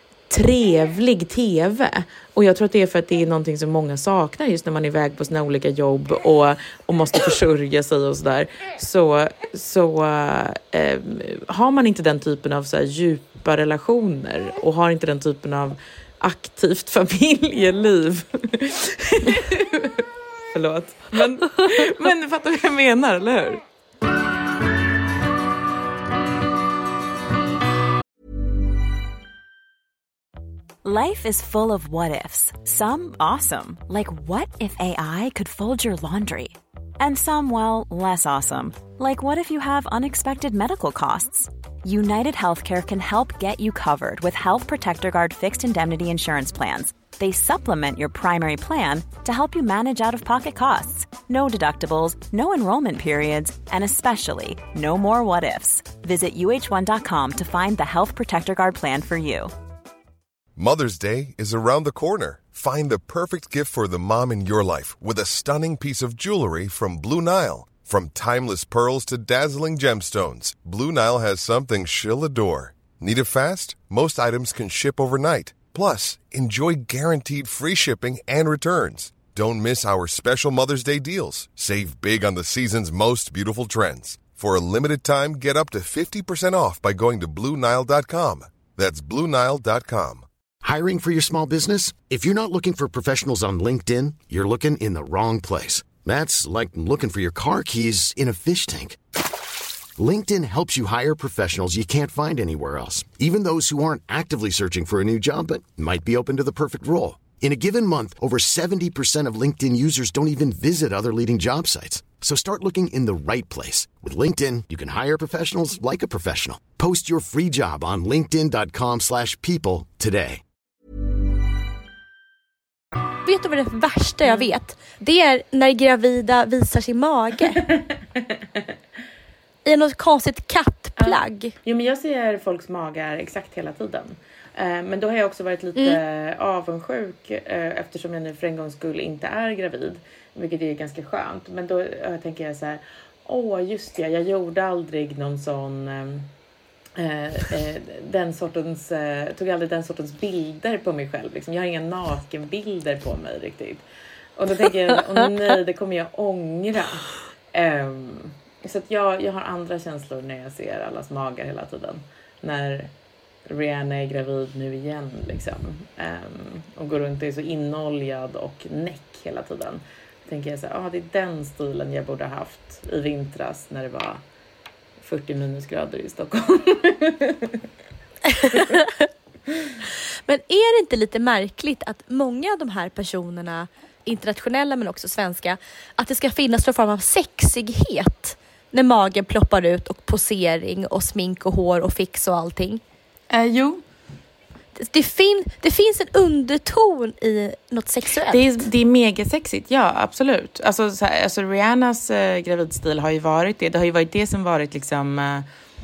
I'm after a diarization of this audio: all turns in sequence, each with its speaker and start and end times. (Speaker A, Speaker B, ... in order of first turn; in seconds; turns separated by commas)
Speaker A: 0.3-23.6, Speaker B: 30.8-59.5, Speaker C: 60.5-90.2, Speaker D: 90.6-99.0, Speaker D: 100.0-120.4, Speaker E: 123.2-127.6, Speaker E: 129.6-131.5, Speaker A: 131.0-146.3, Speaker A: 147.0-153.8, Speaker A: 154.4-162.9, Speaker A: 163.5-174.2, Speaker A: 175.0-177.6, Speaker E: 178.3-179.1, Speaker E: 180.2-192.8, Speaker A: 193.3-193.8, Speaker E: 194.8-198.6, Speaker A: 198.2-205.4